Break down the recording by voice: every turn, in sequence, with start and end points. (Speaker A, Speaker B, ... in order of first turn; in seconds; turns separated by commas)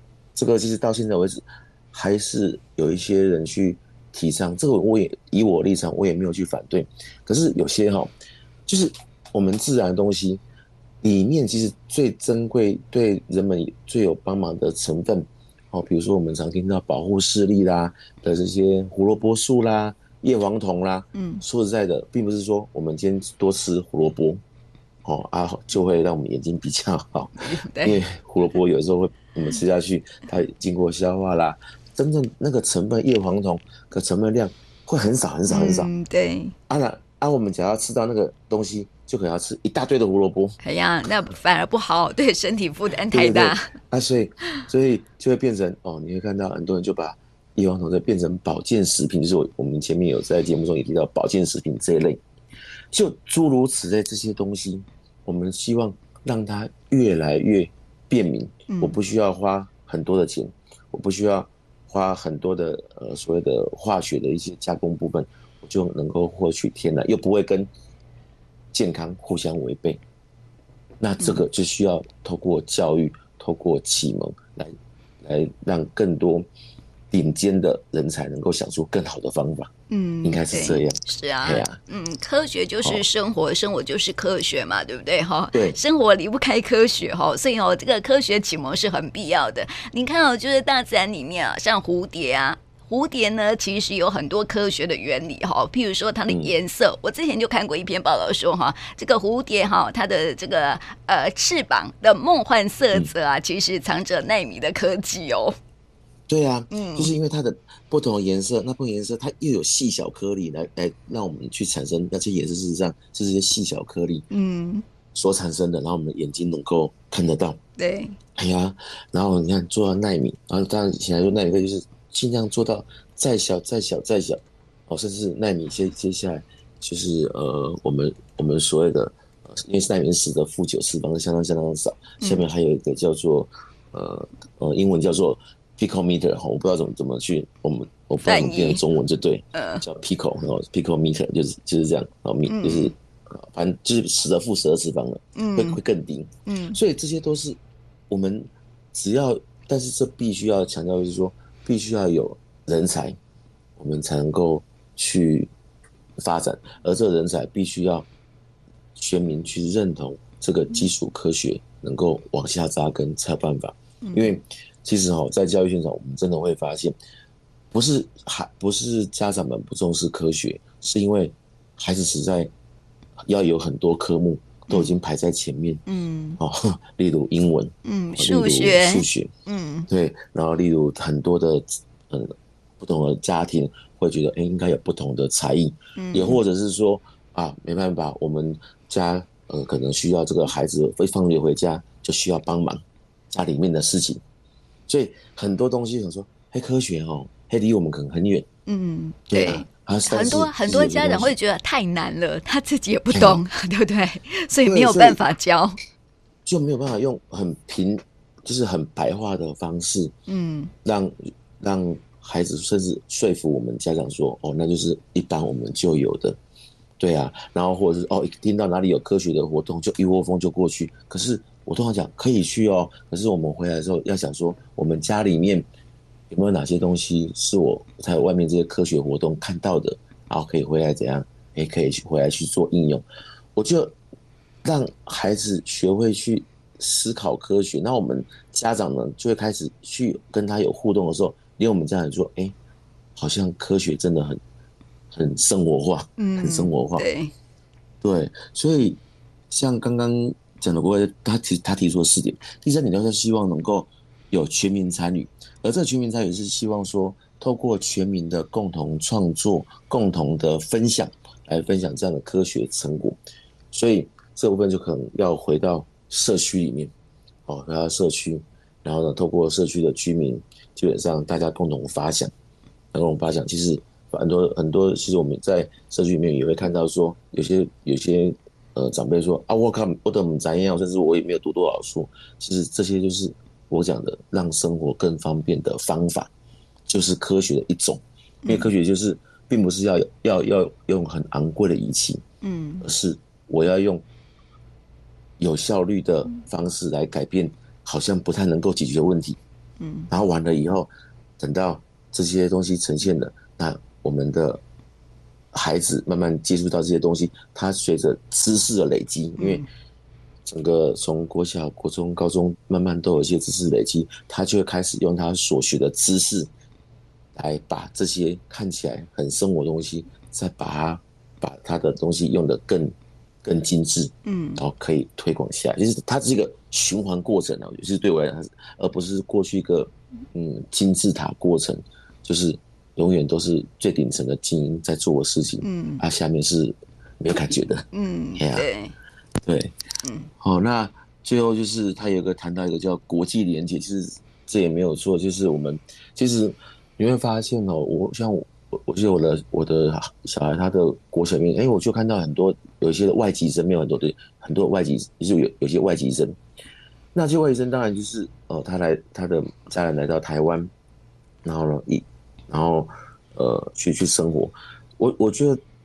Speaker A: 0.3-8.1, Speaker A: 8.7-10.4, Speaker A: 11.0-24.4, Speaker B: 21.1-21.4, Speaker A: 25.0-35.9, Speaker B: 27.4-28.0, Speaker B: 35.5-36.5, Speaker A: 36.7-40.6, Speaker B: 40.6-43.7, Speaker A: 43.1-52.2, Speaker A: 52.9-67.7, Speaker B: 58.7-59.0, Speaker A: 68.7-70.0, Speaker A: 71.0-76.5, Speaker B: 71.2-71.4, Speaker A: 77.1-79.7, Speaker B: 79.9-105.5, Speaker A: 80.2-81.8, Speaker A: 85.5-85.8, Speaker A: 96.3-96.5, Speaker A: 106.3-114.2, Speaker B: 106.7-107.1, Speaker B: 114.3-114.8, Speaker A: 115.1-117.6, Speaker B: 117.8-118.2, Speaker A: 118.3-147.6, Speaker B: 138.2-138.8, Speaker B: 139.5-139.8, Speaker B: 142.5-142.9, Speaker B: 145.3-145.8, Speaker B: 146.5-146.8, Speaker A: 148.1-153.2, Speaker A: 153.8-155.5, Speaker A: 156.2-158.1, Speaker A: 158.9-166.9, Speaker B: 164.0-164.3, Speaker A: 167.7-172.5, Speaker A: 173.2-175.8, Speaker B: 174.7-174.9, Speaker B: 175.8-176.4, Speaker A: 176.4-179.3, Speaker B: 177.8-179.9, Speaker A: 179.9-194.2, Speaker B: 185.9-186.4, Speaker A: 194.9-198.5, Speaker B: 198.7-205.8, Speaker A: 199.3-201.3, Speaker A: 203.1-203.4, Speaker A: 204.6-205.2, Speaker A: 206.4-210.1, Speaker B: 210.3-210.7, Speaker A: 210.8-216.4, Speaker A: 217.0-225.7, Speaker A: 226.3-233.9, Speaker A: 234.6-242.5, Speaker A: 243.2-244.4, Speaker A: 245.1-247.0, Speaker B: 246.2-247.3, Speaker A: 248.0-263.2, Speaker A: 263.7-266.9, Speaker A: 267.5-272.3, Speaker A: 272.9-286.3, Speaker A: 286.9-292.2, Speaker B: 288.4-288.7, Speaker B: 292.4-292.9, Speaker A: 292.8-294.0, Speaker A: 295.4-299.4, Speaker B: 299.8-300.1, Speaker A: 300.1-304.6, Speaker A: 305.5-309.6, Speaker B: 309.4-309.7, Speaker A: 310.4-316.5, Speaker A: 317.3-337.8, Speaker B: 324.2-324.6, Speaker B: 335.6-336.0, Speaker B: 337.9-338.9, Speaker A: 338.4-338.6, Speaker A: 339.4-339.7, Speaker B: 340.0-340.3, Speaker A: 340.4-356.4, Speaker A: 357.1-360.7, Speaker A: 361.4-365.6